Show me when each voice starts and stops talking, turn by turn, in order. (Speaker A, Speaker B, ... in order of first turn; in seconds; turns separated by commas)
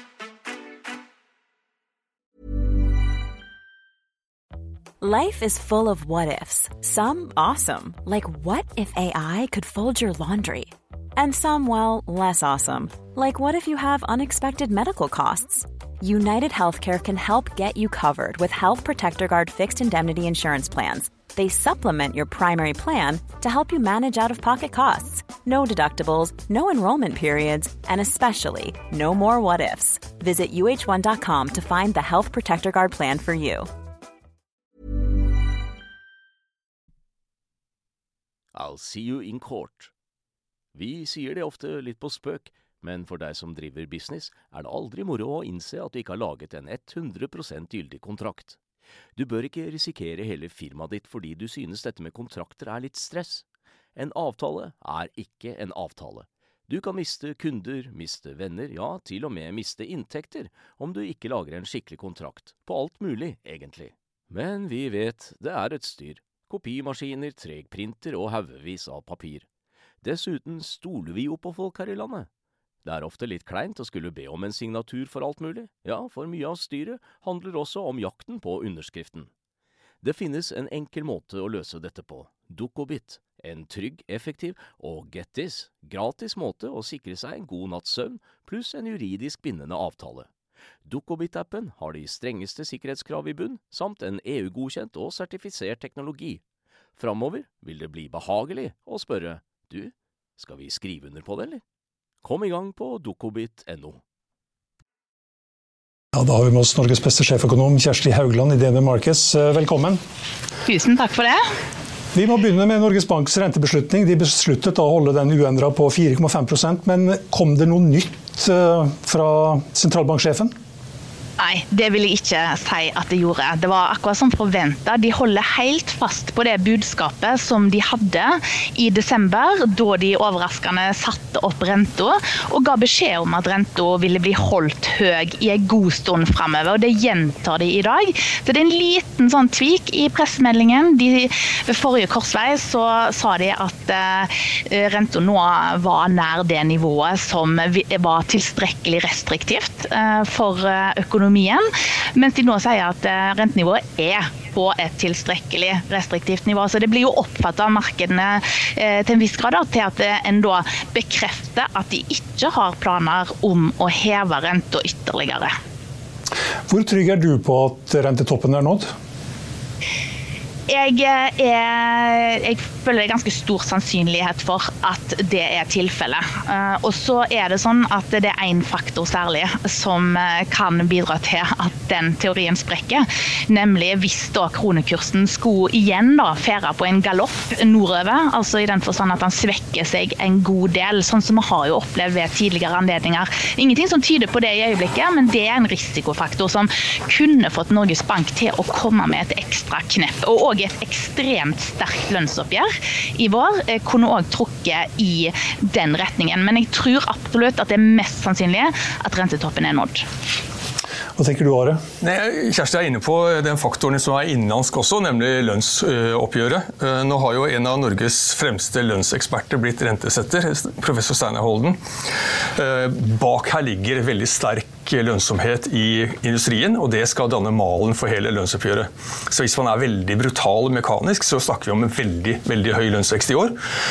Speaker A: 5.0-33.7, Speaker B: 38.5-39.9, Speaker B: 40.7-48.6, Speaker B: 49.1-53.4, Speaker B: 54.0-69.5, Speaker B: 70.0-72.3, Speaker B: 72.8-79.3, Speaker B: 80.0-90.3, Speaker B: 90.8-96.4, Speaker B: 97.0-101.6, Speaker B: 102.2-104.0, Speaker C: 106.1-110.0, Speaker D: 110.7-111.4, Speaker C: 112.1-120.5, Speaker D: 121.4-165.5, Speaker C: 166.7-168.9, Speaker D: 170.7-210.1, Speaker C: 211.2-211.8, Speaker E: 212.0-221.8, Speaker E: 222.5-233.6